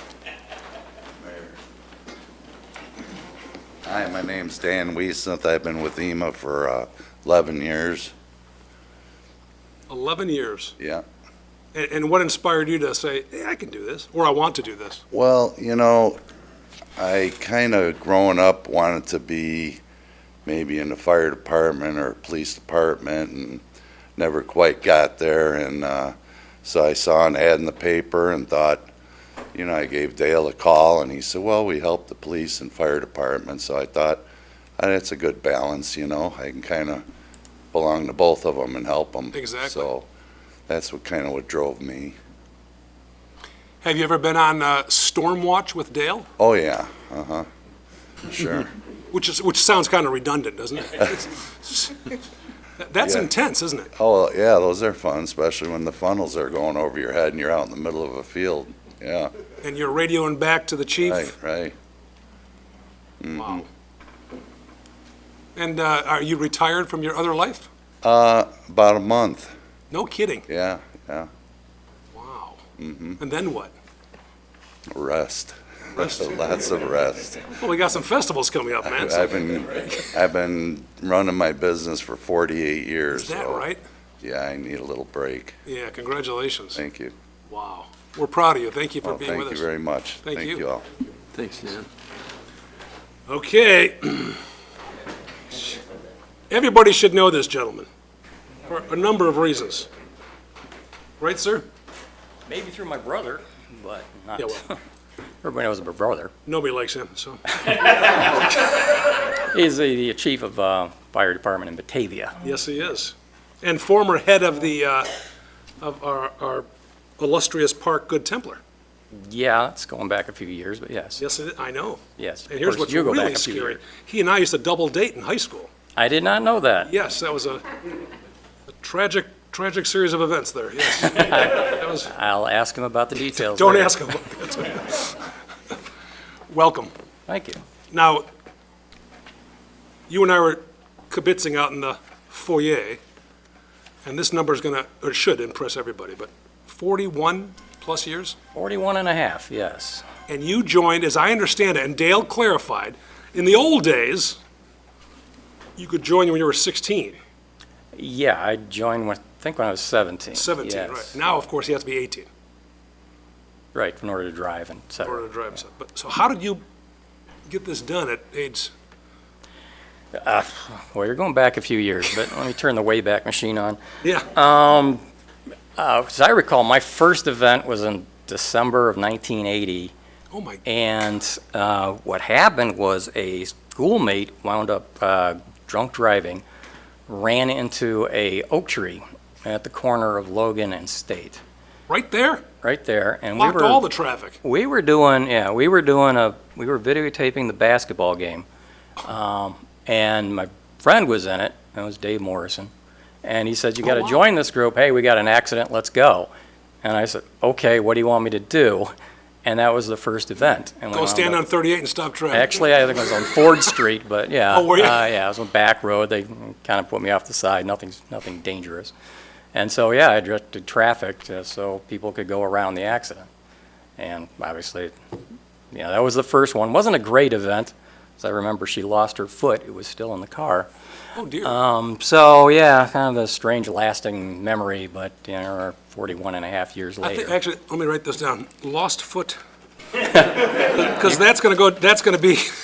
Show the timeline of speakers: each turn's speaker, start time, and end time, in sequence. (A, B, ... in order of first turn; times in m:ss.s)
0:01.2-0:01.6 A
0:03.8-0:08.1 A
0:09.9-0:10.8 B
0:10.8-0:11.0 A
0:11.7-0:15.0 B
0:15.1-0:16.2 A
0:17.0-0:19.8 A
0:20.4-0:23.6 A
0:24.2-0:28.9 A
0:29.5-0:34.2 A
0:34.8-0:37.1 A
0:37.7-0:40.1 A
0:39.3-0:39.9 B
0:40.7-0:42.2 A
0:43.8-0:46.3 B
0:46.4-0:47.5 A
0:48.2-0:48.7 A
0:49.1-0:52.2 B
0:52.8-0:53.9 B
0:53.0-0:53.3 A
0:54.0-0:59.3 A
0:59.6-1:01.3 B
1:01.0-1:01.8 A
1:03.2-1:03.6 A
1:03.4-1:03.7 B
1:05.6-1:07.7 B
1:08.0-1:09.5 A
1:09.9-1:10.5 B
1:10.5-1:11.3 A
1:12.1-1:12.6 B
1:12.8-1:13.2 A
1:13.2-1:13.7 B
1:14.9-1:17.6 A
1:16.0-1:16.3 B
1:17.5-1:20.2 B
1:18.9-1:23.7 A
1:23.1-1:23.8 B
1:24.2-1:25.6 A
1:25.7-1:26.8 B
1:26.8-1:27.1 A
1:27.5-1:29.7 B
1:29.0-1:30.8 A
1:30.2-1:30.6 B
1:31.4-1:31.9 B
1:33.3-1:34.4 B
1:36.5-1:37.9 B
1:38.7-1:39.9 B
1:41.2-1:41.7 B
1:42.5-1:44.8 C
1:44.4-1:44.6 B
1:45.4-1:46.3 C
1:46.5-1:47.4 B
1:47.5-1:52.4 C
1:52.4-1:55.1 B
1:55.8-1:56.7 B
1:57.2-1:58.6 B
1:59.1-2:01.2 C
2:01.2-2:05.7 B
2:02.2-2:03.8 C
2:06.0-2:06.9 C
2:06.9-2:07.7 B
2:08.8-2:12.1 B
2:11.0-2:14.1 C
2:13.2-2:15.2 B
2:16.5-2:16.9 B
2:17.3-2:17.6 C
2:17.9-2:18.3 B
2:20.1-2:23.0 B
2:24.0-2:28.4 B
2:28.5-2:30.0 C
2:30.3-2:34.4 B
2:35.8-2:37.2 B
2:37.9-2:41.2 C
2:40.3-2:42.3 B
2:43.7-2:45.3 C
2:45.0-2:46.6 B
2:47.5-2:48.7 B
2:50.2-2:55.0 C
2:54.0-2:54.3 B
2:55.8-2:59.9 C
3:00.3-3:00.6 B
3:00.6-3:06.4 C
3:07.1-3:11.4 C
3:11.9-3:12.4 B
3:12.6-3:13.8 C
3:13.4-3:14.4 B
3:14.4-3:18.5 C
3:19.0-3:22.7 C
3:23.2-3:26.3 C
3:23.8-3:24.2 B
3:26.8-3:28.9 C
3:29.4-3:31.4 C
3:30.9-3:32.6 B
3:32.3-3:38.9 C
3:34.5-3:35.1 B
3:39.5-3:43.3 C
3:44.0-3:45.0 C
3:45.7-3:50.7 C
3:51.2-3:51.6 B
3:51.4-3:57.4 C
3:57.0-3:59.4 B
4:00.2-4:02.5 B